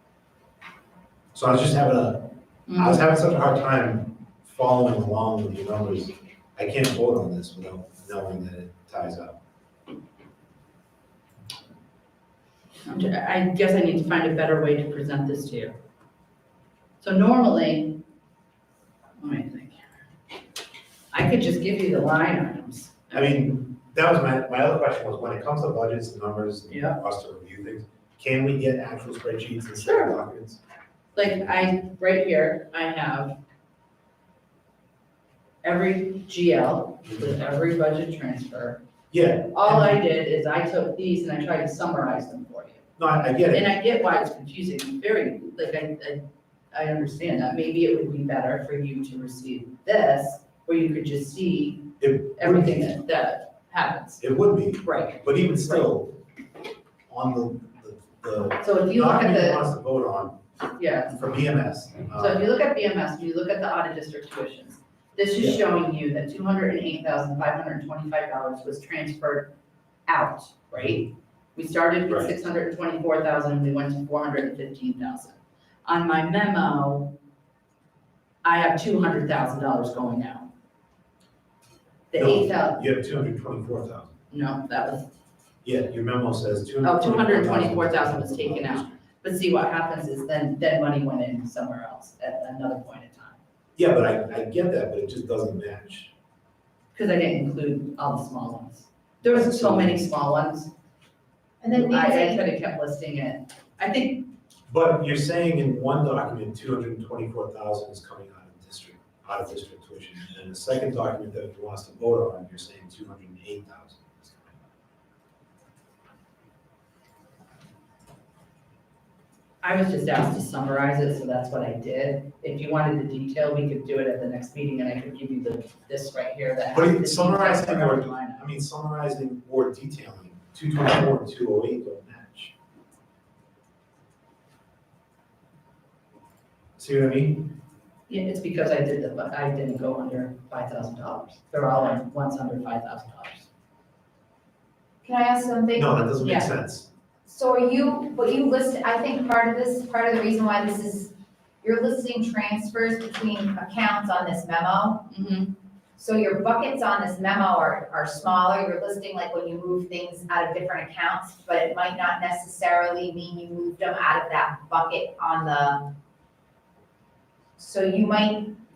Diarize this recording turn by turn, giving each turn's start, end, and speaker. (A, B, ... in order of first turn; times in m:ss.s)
0:01.3-0:09.4 A
0:02.7-0:03.0 B
0:12.8-0:15.8 B
0:17.0-0:18.0 B
0:19.2-0:19.8 B
0:21.1-0:23.6 B
0:23.1-0:30.6 A
0:26.7-0:27.0 B
0:29.8-0:30.2 B
0:31.1-0:33.4 B
0:35.6-0:38.8 B
0:39.1-0:40.0 A
0:39.5-0:42.8 B
0:43.0-0:43.7 A
0:43.5-0:54.2 B
0:52.0-0:52.9 A
0:54.2-0:56.2 A
0:54.8-0:55.2 B
0:57.1-1:00.4 A
0:58.6-0:59.6 B
1:00.8-1:01.2 B
1:01.1-1:02.5 A
1:02.2-1:09.5 B
1:05.4-1:05.6 A
1:10.1-1:17.1 B
1:12.1-1:12.3 A
1:18.4-1:20.5 B
1:22.1-1:22.8 B
1:22.1-1:24.1 A
1:24.3-1:25.1 B
1:25.6-1:29.0 A
1:26.8-1:33.4 B
1:33.8-1:36.1 A
1:36.9-1:40.7 B
1:39.2-1:40.1 A
1:41.6-1:42.4 C
1:41.7-1:44.3 B
1:44.7-1:54.6 A
1:59.6-2:08.4 B
2:06.7-2:12.5 A
2:16.8-2:17.5 A
2:18.1-2:23.5 B
2:25.0-2:26.0 C
2:25.7-2:26.9 A
2:26.2-2:26.5 B
2:27.2-2:35.1 C
2:35.1-2:35.5 B
2:36.0-2:45.9 C
2:47.6-2:48.6 C